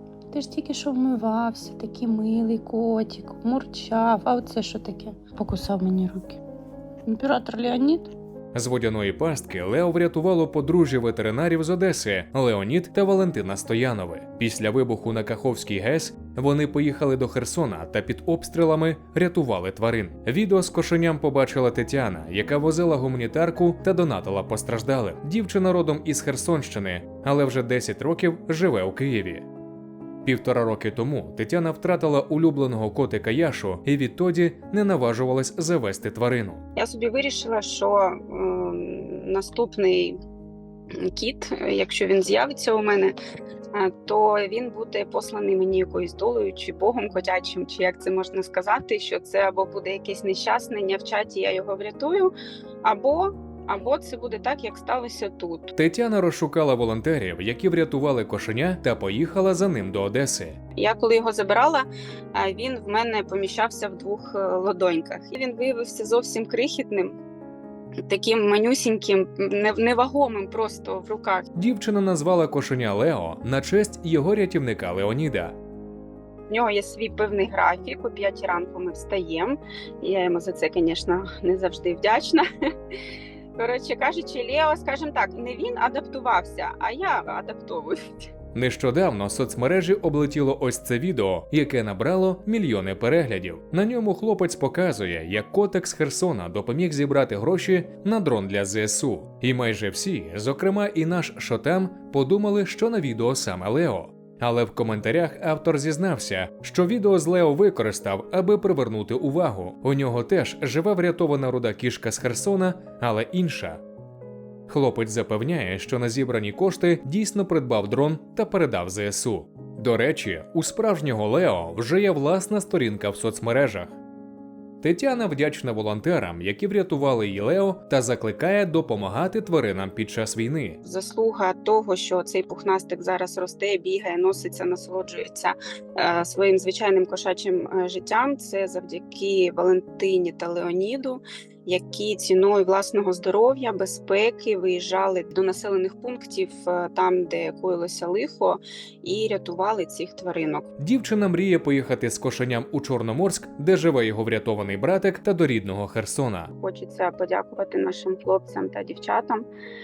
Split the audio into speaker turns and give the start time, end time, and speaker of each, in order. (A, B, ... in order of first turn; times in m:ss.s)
0:00.3-0:06.4 A
0:07.0-0:08.1 A
0:08.5-0:29.4 B
0:30.2-0:36.6 B
0:36.8-0:40.2 C
0:41.0-0:43.1 C
0:43.7-0:52.3 C
0:52.8-0:55.7 C
0:55.7-1:00.6 B
1:00.8-1:07.1 C
1:08.1-1:11.4 C
1:11.5-1:15.6 B
1:16.5-1:22.4 C
1:23.6-1:28.3 C
1:28.5-1:53.8 B
1:54.7-2:03.9 B
2:04.8-2:10.8 B
2:10.8-2:30.7 C
2:30.8-2:36.5 B
2:36.6-2:39.4 C